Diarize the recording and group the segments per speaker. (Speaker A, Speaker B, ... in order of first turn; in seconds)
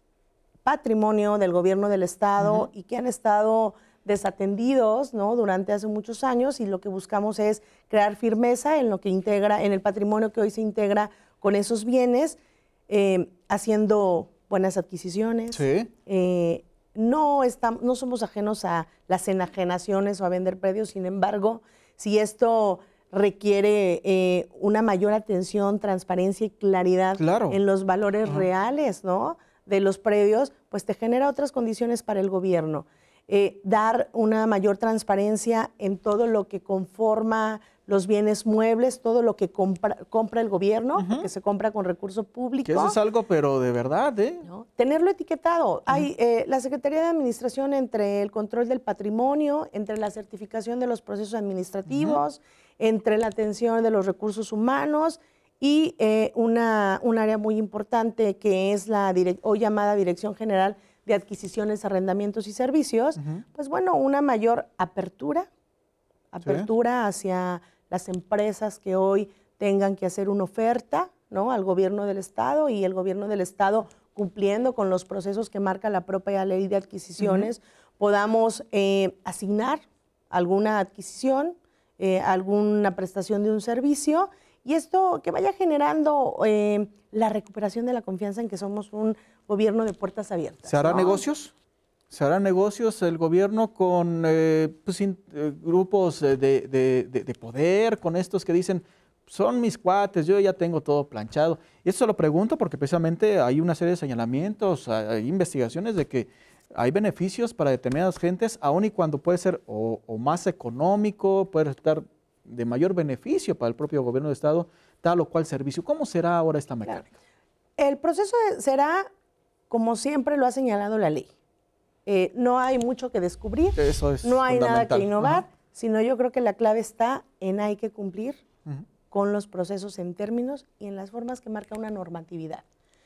Speaker A: 0.6-12.4, 12.9-43.0, 44.4-65.5, 66.3-91.2, 117.8-119.1, 119.7-121.3, 122.1-128.4, 129.1-132.6
Speaker B: 15.5-15.9, 27.2-27.6, 41.0-41.3, 42.7-44.5, 51.9-52.2, 66.4-66.7, 77.2-77.5, 90.7-91.5, 92.1-117.1, 123.8-125.4